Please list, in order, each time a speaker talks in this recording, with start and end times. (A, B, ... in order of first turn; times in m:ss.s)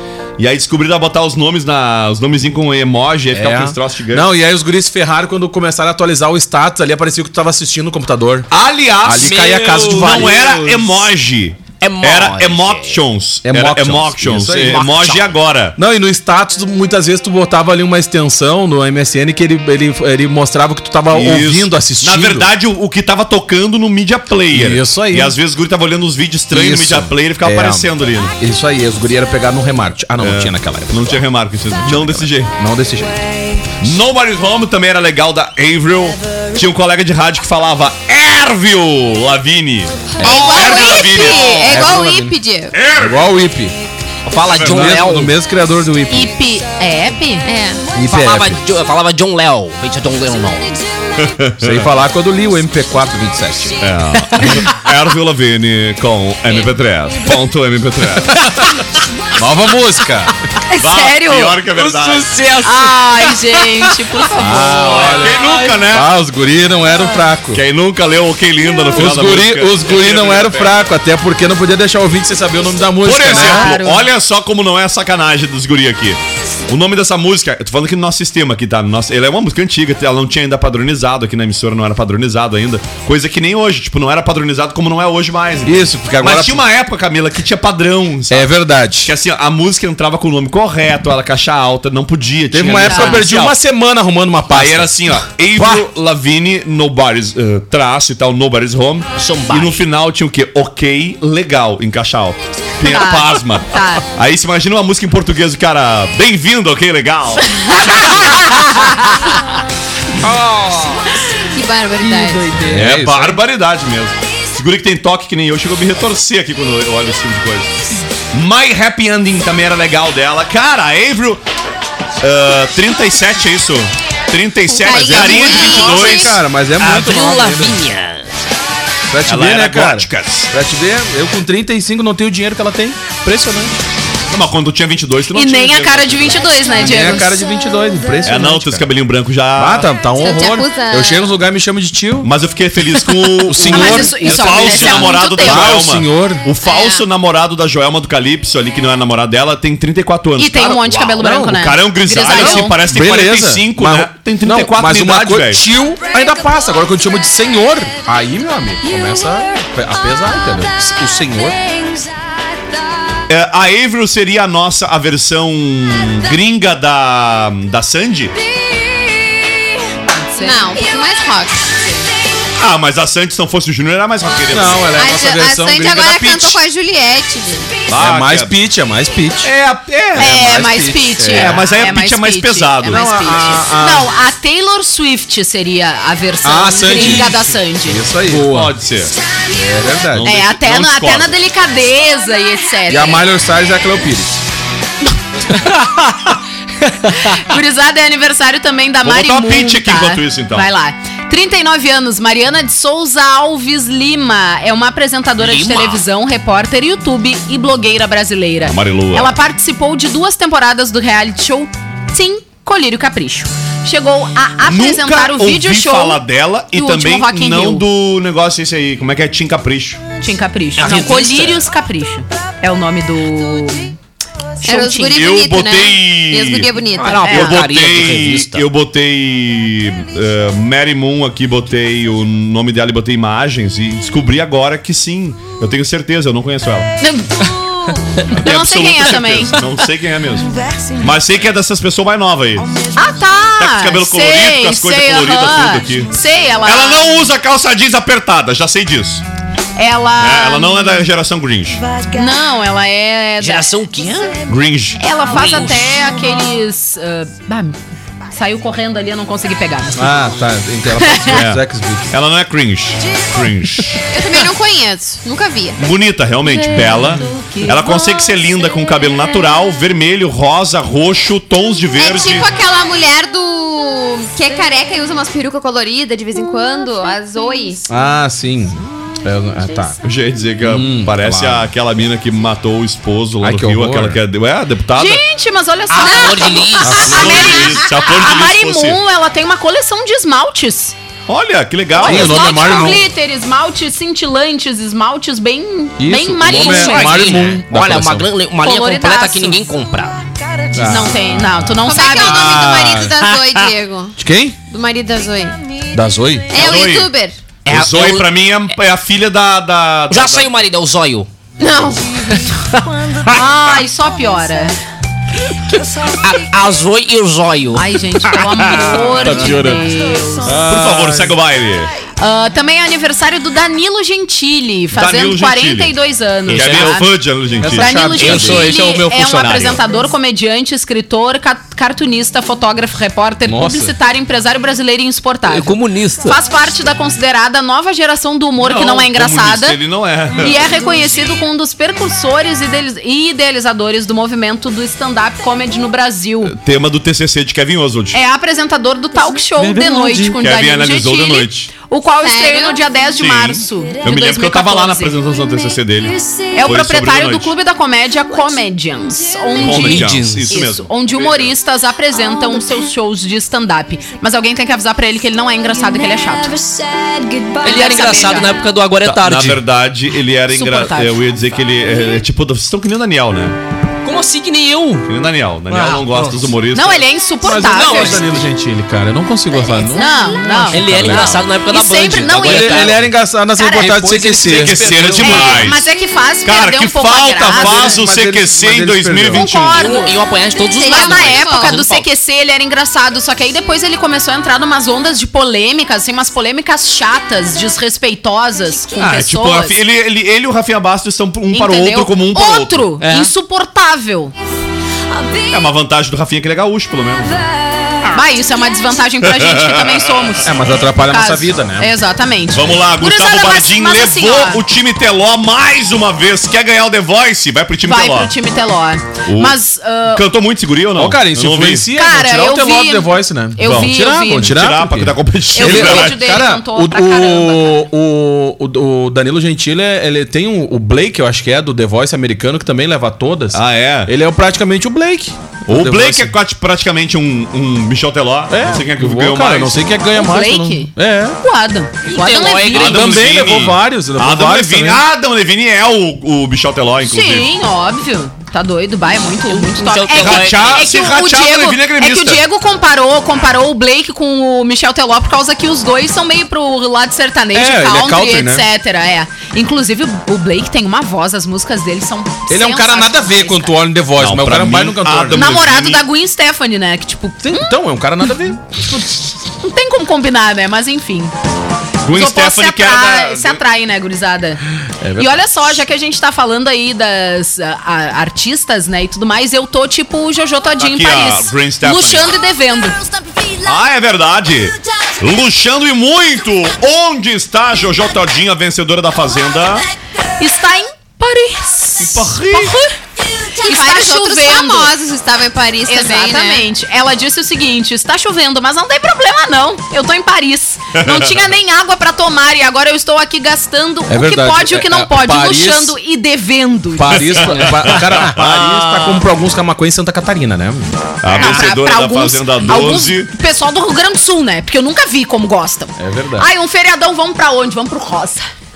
0:00.4-0:04.3 A
0:03.3-0:08.5 B
0:08.5-0:15.8 A
0:09.0-0:10.8 B
0:09.2-0:10.6 C
0:11.8-0:13.0 C
0:13.4-0:14.8 B
0:14.6-0:15.4 C
0:15.8-0:22.5 B
0:21.1-0:28.4 A
0:24.5-0:25.4 B
0:26.5-0:31.2 B
0:30.2-0:32.5 A
0:31.8-0:33.7 B
0:33.8-0:41.7 A
0:40.2-0:42.4 B
0:40.2-0:42.7 D
0:40.3-0:40.9 E
0:42.7-0:43.3 A
0:42.9-0:43.8 B
0:44.2-0:45.4 C
0:44.6-0:45.0 A
0:44.6-0:46.3 B
0:46.1-0:47.5 E
0:47.4-0:47.8 D
0:47.9-0:48.6 B
0:48.0-0:50.7 C
0:51.2-0:51.9 A
0:51.6-0:53.8 B
0:53.8-0:58.4 A
0:58.2-0:58.8 B
0:59.4-1:00.3 B
1:00.7-1:01.6 E
1:00.8-1:02.3 A
1:01.8-1:03.3 B
1:02.6-1:05.3 E
1:04.3-1:07.6 B
1:05.0-1:06.1 A
1:07.5-1:10.9 A
1:08.9-1:13.7 B
1:13.0-1:33.6 A
1:13.2-1:14.0 E
1:25.6-1:26.6 B
1:28.3-1:29.1 B
1:32.5-1:35.0 B
1:32.8-1:33.2 E
1:34.5-1:48.6 A
1:35.5-1:35.8 B
1:39.2-1:39.8 C
1:42.8-1:44.0 E
1:47.6-1:49.4 E
1:50.2-1:51.1 C
1:51.5-1:52.6 D
1:52.0-1:52.7 E
1:52.6-1:53.4 B
1:52.6-2:01.4 A
2:02.2-2:06.4 A
2:04.7-2:06.4 D
2:04.9-2:07.8 B
2:06.8-2:08.3 C
2:09.1-2:13.8 B
2:09.3-2:10.5 A
2:14.3-2:16.6 A
2:15.3-2:17.4 E
2:16.8-2:18.9 B
2:18.2-2:19.9 A
2:19.6-2:22.3 B
2:20.1-2:21.4 D
2:22.2-2:35.7 A
2:23.4-2:26.5 B
2:23.6-2:25.8 E
2:26.6-2:27.0 E
2:30.4-2:32.9 E
2:31.2-2:31.6 B
2:32.2-2:41.7 B
2:43.3-2:48.4 A
2:50.0-2:50.7 E
2:50.4-2:52.0 D
2:52.6-2:55.0 A
2:54.5-2:56.6 B
2:54.9-2:57.7 D
2:57.9-2:58.6 A
2:57.9-2:59.5 B
2:59.4-3:00.5 A
3:00.2-3:08.0 E
3:00.2-3:01.7 B
3:01.3-3:03.1 A
3:02.9-3:04.1 B
3:06.4-3:08.7 B
3:08.2-3:09.2 A
3:09.5-3:10.4 B
3:10.1-3:11.4 A
3:10.2-3:13.3 E
3:12.9-3:14.4 B
3:15.5-3:16.3 E
3:17.1-3:36.2 E
3:19.0-3:20.7 A
3:25.4-3:26.0 C
3:28.6-3:29.4 A
3:34.6-3:40.0 A
3:36.7-3:37.8 E
3:40.2-3:44.0 E
3:40.8-3:41.7 C
3:44.6-3:45.2 E
3:44.6-3:47.4 D
3:45.1-3:46.7 A
3:47.0-3:48.6 C
3:47.2-3:47.6 E
3:47.3-3:56.9 A
3:57.0-3:59.6 E
3:58.3-4:02.9 A
4:03.0-4:07.3 E
4:03.6-4:09.2 A
4:09.8-4:11.1 E
4:10.2-4:11.8 A
4:12.1-4:13.7 E
4:13.4-4:14.5 C
4:14.5-4:15.0 A
4:15.0-4:17.8 E
4:15.2-4:16.0 C
4:18.3-4:20.2 E
4:20.0-4:22.1 B
4:21.0-4:21.4 E
4:21.3-4:24.0 A
4:24.1-4:25.8 D
4:25.8-4:32.5 A
4:26.5-4:27.9 E
4:32.0-4:37.9 D
4:37.9-4:40.0 B
4:40.0-4:45.2 A
4:40.6-4:41.7 B
4:43.4-4:44.2 B
4:45.0-4:51.0 E
4:45.9-4:47.6 C
4:46.0-4:47.0 D
4:46.8-4:47.4 B
4:47.0-4:49.0 A
4:51.3-4:52.6 A
4:52.0-4:57.4 E
4:52.0-4:53.0 B
4:56.0-4:58.3 B
4:56.5-5:00.2 C
4:58.6-4:59.6 E
5:00.7-5:01.2 B
5:00.8-5:02.5 E
5:01.8-5:05.6 D
5:02.2-5:03.4 B
5:04.2-5:04.6 B
5:05.9-5:06.5 B
5:06.5-5:07.4 D
5:06.5-5:07.1 A
5:07.7-5:08.3 C
5:07.7-5:10.5 A
5:10.1-5:11.3 C
5:11.6-5:12.4 D
5:13.1-5:14.8 E
5:16.2-5:18.5 C
5:17.7-5:20.6 E
5:18.7-5:19.8 B
5:20.4-5:21.3 B
5:20.5-5:21.9 A
5:22.2-5:27.1 E
5:24.9-5:28.7 A
5:26.5-5:26.9 C
5:27.6-5:29.5 B
5:27.7-5:39.8 E
5:28.2-5:29.0 C
5:29.3-5:29.8 A
5:33.5-5:34.0 B
5:35.5-5:36.4 C
5:38.6-5:40.6 A
5:40.3-5:46.6 E
5:46.4-5:48.2 A
5:48.1-5:55.2 E
5:49.8-5:50.2 B
5:50.4-5:51.7 A
5:52.2-5:52.8 D
5:53.1-5:57.5 A
5:56.5-6:06.7 E
5:59.6-6:01.5 A
5:59.6-6:00.5 C
6:07.6-6:08.5 E
6:07.6-6:09.6 C
6:09.0-6:13.6 A
6:10.5-6:11.2 E
6:14.0-6:15.1 C
6:15.0-6:17.0 A
6:15.7-6:16.5 C
6:16.7-6:18.2 E
6:17.4-6:21.4 B
6:17.9-6:18.2 C
6:19.9-6:23.0 E
6:20.7-6:23.1 C
6:22.3-6:25.6 B
6:23.6-6:24.0 E
6:23.8-6:25.7 C
6:24.5-6:25.9 A
6:25.2-6:28.0 E
6:26.4-6:29.8 A
6:27.5-6:29.4 B
6:29.3-6:30.2 E
6:29.8-6:32.1 C
6:30.8-6:31.8 D
6:30.8-6:39.8 E
6:39.0-6:42.9 A
6:41.5-6:44.3 E
6:43.0-6:43.3 C
6:45.5-6:47.5 A
6:48.1-6:54.6 E
6:49.2-6:50.4 A
6:50.4-6:51.9 B
6:52.5-6:58.3 A
6:57.8-7:00.2 E
6:59.2-7:01.9 A
7:01.0-7:16.3 B
7:01.9-7:04.6 E
7:03.6-7:06.2 A
7:05.6-7:07.8 E
7:13.5-7:14.1 A
7:15.7-7:19.8 A
7:18.5-7:21.4 B
7:20.1-7:23.0 E
7:22.1-7:23.1 C
7:22.8-7:25.0 B
7:22.8-7:27.5 A
7:27.0-7:43.8 E
7:29.5-7:30.9 C
7:30.2-7:32.4 A
7:37.5-7:38.7 B
7:42.5-7:45.6 B
7:44.2-7:46.1 A
7:45.3-7:48.3 E
7:47.4-7:48.6 B
7:48.8-7:51.3 E
7:52.0-7:53.6 A
7:52.1-7:54.6 E
7:55.0-7:55.7 B
7:55.2-8:03.0 E
8:00.8-8:02.4 A
8:03.6-8:09.9 A
8:10.4-8:12.9 E
8:12.0-8:12.8 A
8:13.6-8:16.7 D
8:13.6-8:14.9 E
8:15.9-8:27.6 E
8:20.9-8:21.4 A
8:24.1-8:26.0 B
8:27.0-8:30.9 B
8:27.5-8:29.2 A
8:27.6-8:28.0 C
8:31.2-8:33.3 A
8:31.3-8:38.4 E
8:36.0-8:36.5 B